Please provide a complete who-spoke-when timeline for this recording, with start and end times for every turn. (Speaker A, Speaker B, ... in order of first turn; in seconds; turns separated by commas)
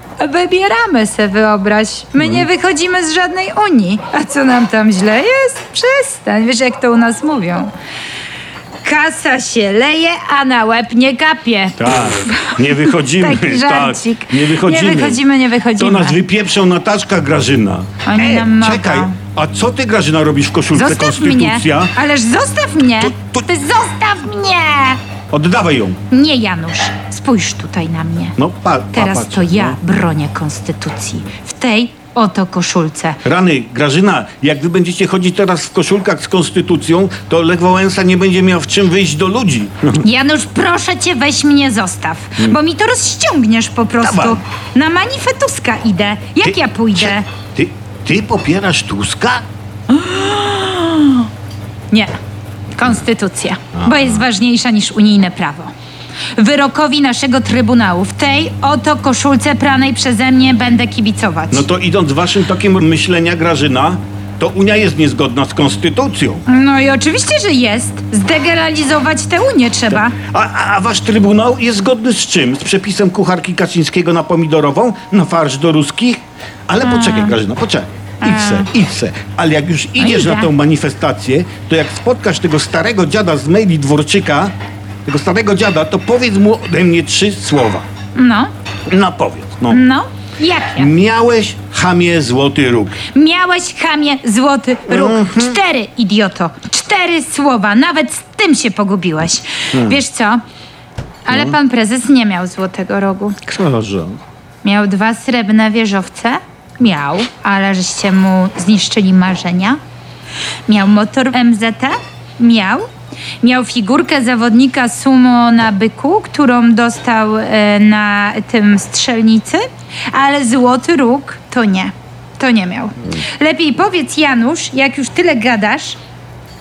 Speaker A: 0.2-7.7, Speaker B: 2.2-2.5, Speaker A: 8.8-16.2, Speaker B: 11.8-15.2, Speaker B: 15.8-22.0, Speaker A: 18.0-19.2, Speaker A: 20.7-25.0, Speaker B: 23.0-23.4, Speaker B: 25.3-26.0, Speaker A: 26.1-28.4, Speaker B: 28.4-29.8, Speaker A: 28.9-33.2, Speaker B: 33.2-40.0, Speaker A: 40.0-47.3, Speaker B: 44.0-44.4, Speaker B: 46.4-49.5, Speaker A: 49.9-51.3, Speaker A: 51.9-52.2, Speaker A: 52.8-55.7, Speaker B: 53.8-54.1, Speaker A: 56.4-61.7, Speaker B: 61.5-66.4, Speaker A: 66.5-70.2, Speaker B: 69.9-84.5, Speaker A: 76.8-77.4, Speaker A: 78.2-78.7, Speaker A: 80.0-80.5, Speaker B: 85.0-87.9, Speaker A: 88.2-88.5, Speaker B: 88.9-89.8, Speaker A: 89.7-90.9, Speaker B: 90.8-93.0, Speaker A: 93.1-100.4, Speaker B: 94.9-95.6, Speaker B: 99.7-100.0, Speaker A: 101.3-103.4, Speaker B: 101.3-101.6, Speaker B: 103.5-104.2, Speaker A: 104.6-109.8, Speaker A: 110.7-112.9, Speaker A: 113.4-126.0